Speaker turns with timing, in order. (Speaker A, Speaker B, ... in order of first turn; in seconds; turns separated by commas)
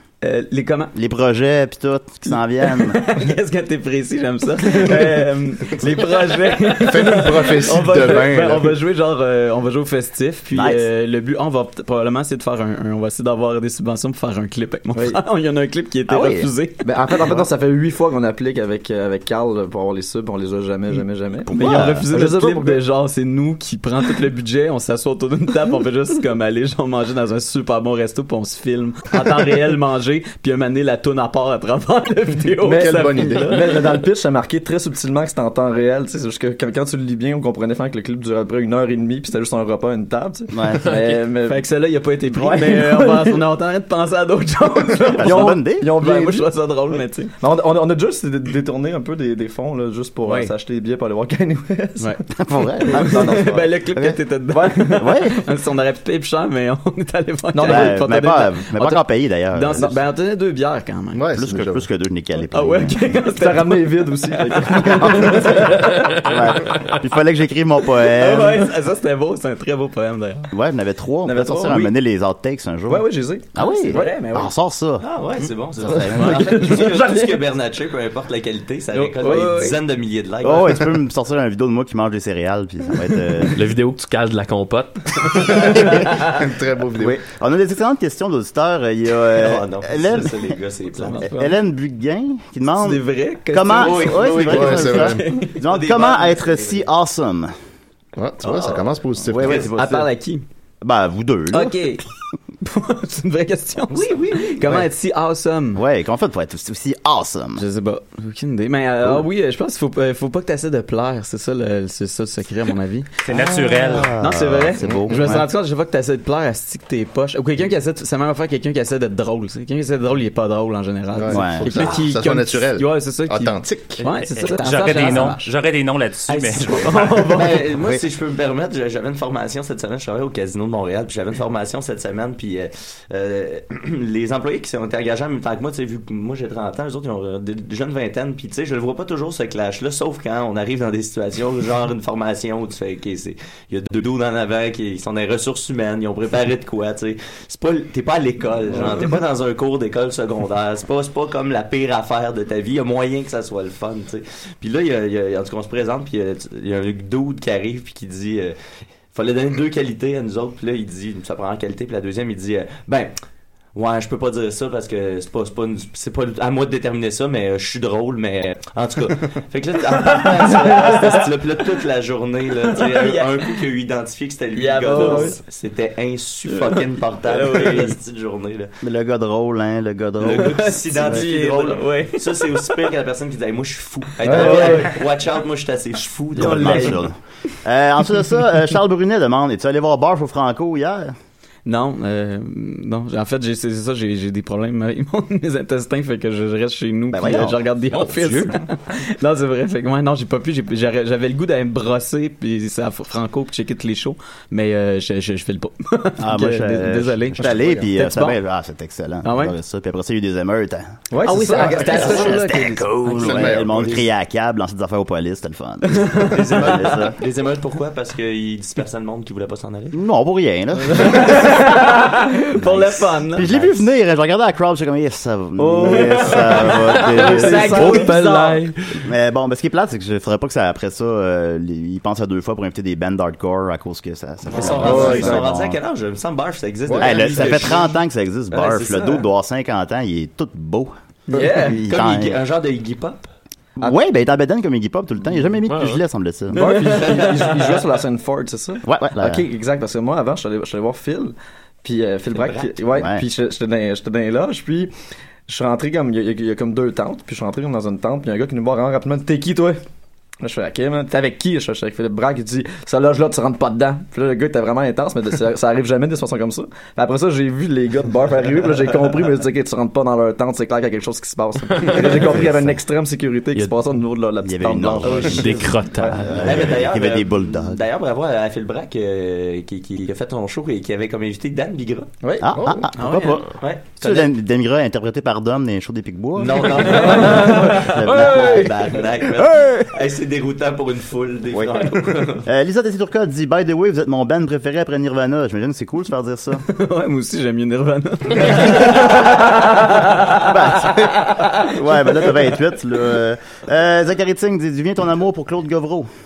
Speaker A: 0.2-0.9, Speaker B: 0.9-3.0, Speaker A: 2.6-16.9, Speaker C: 6.7-8.7, Speaker B: 10.5-10.8, Speaker B: 16.1-16.5, Speaker D: 16.8-22.8, Speaker B: 21.4-22.1, Speaker A: 21.5-33.6, Speaker D: 32.6-41.7, Speaker C: 32.7-33.6, Speaker B: 40.5-40.9, Speaker E: 40.9-41.2, Speaker A: 41.5-47.3, Speaker D: 42.3-43.4, Speaker B: 45.1-45.9, Speaker D: 45.2-46.5, Speaker D: 47.4-52.2, Speaker A: 50.2-50.5, Speaker B: 52.4-54.2, Speaker D: 52.9-53.8, Speaker A: 52.9-61.2, Speaker D: 54.5-55.2, Speaker B: 54.9-55.4, Speaker D: 57.5-58.0, Speaker B: 57.6-59.9, Speaker C: 61.1-61.8, Speaker B: 61.3-63.1, Speaker A: 62.5-66.0, Speaker D: 63.2-65.8, Speaker B: 64.9-68.7, Speaker A: 68.0-70.5, Speaker B: 70.5-75.0, Speaker D: 71.2-71.9, Speaker D: 72.9-74.1, Speaker A: 73.6-74.5, Speaker F: 75.0-80.8, Speaker B: 75.8-76.5, Speaker D: 75.9-77.4, Speaker A: 78.9-79.8, Speaker B: 80.4-83.6, Speaker E: 83.5-85.8, Speaker C: 85.6-87.2, Speaker B: 87.0-97.5, Speaker F: 89.3-91.2, Speaker A: 91.0-91.5, Speaker A: 92.8-95.5, Speaker F: 93.8-94.6, Speaker C: 94.4-95.2, Speaker F: 95.5-96.8, Speaker C: 98.2-99.7, Speaker B: 99.2-100.1, Speaker F: 99.4-99.7, Speaker A: 99.7-100.4, Speaker B: 100.8-102.0, Speaker A: 101.5-102.0, Speaker A: 102.6-105.8, Speaker F: 104.0-104.4, Speaker B: 105.7-107.6, Speaker A: 107.6-113.1, Speaker G: 113.2-114.2, Speaker B: 113.3-115.4, Speaker A: 114.2-125.5, Speaker C: 114.8-115.4, Speaker C: 121.1-124.1, Speaker B: 121.3-122.0, Speaker G: 124.2-127.0, Speaker F: 126.3-158.5, Speaker A: 126.6-127.6, Speaker F: 159.1-163.1, Speaker F: 163.7-178.7, Speaker A: 170.2-171.1, Speaker A: 172.8-173.6, Speaker A: 174.5-175.3, Speaker D: 174.9-175.3, Speaker A: 176.5-177.9, Speaker B: 178.8-181.2, Speaker F: 180.2-187.0, Speaker A: 180.6-182.7, Speaker D: 184.2-184.9, Speaker A: 184.2-184.9, Speaker B: 186.3-191.1, Speaker A: 186.4-187.0, Speaker A: 191.7-208.4, Speaker B: 197.1-197.6, Speaker E: 198.0-198.5, Speaker B: 206.2-210.9, Speaker C: 207.4-207.9, Speaker A: 209.2-209.5, Speaker D: 211.1-212.6, Speaker A: 211.2-213.5, Speaker B: 211.6-217.2, Speaker C: 211.8-212.2, Speaker C: 213.1-214.0, Speaker A: 216.0-216.6, Speaker F: 216.3-220.0, Speaker B: 219.9-221.6, Speaker A: 221.0-223.5, Speaker B: 222.6-227.9, Speaker D: 225.6-228.2, Speaker A: 227.1-228.7, Speaker E: 227.2-228.7, Speaker B: 229.0-235.8, Speaker F: 234.5-238.0, Speaker C: 234.8-235.4, Speaker C: 236.9-237.6, Speaker B: 236.9-240.9, Speaker F: 238.5-239.2, Speaker A: 241.3-241.7, Speaker D: 241.3-241.8, Speaker B: 241.5-242.4, Speaker F: 241.8-243.3, Speaker B: 243.8-246.7, Speaker E: 245.7-246.0, Speaker D: 246.5-254.9, Speaker F: 246.9-247.4, Speaker B: 248.8-249.4, Speaker F: 252.3-252.7, Speaker B: 252.9-253.2, Speaker D: 255.5-259.8, Speaker D: 260.4-276.6, Speaker E: 271.7-272.4, Speaker B: 274.4-277.8, Speaker E: 275.1-276.4, Speaker F: 276.4-282.1, Speaker D: 282.2-282.6, Speaker B: 282.4-288.7, Speaker C: 282.5-282.9, Speaker A: 282.9-283.4, Speaker F: 283.6-284.3, Speaker F: 286.4-292.4, Speaker D: 287.0-287.9, Speaker B: 289.3-289.9, Speaker B: 291.5-291.9, Speaker B: 292.4-296.6, Speaker A: 296.7-301.7, Speaker B: 298.4-299.2, Speaker B: 300.3-306.1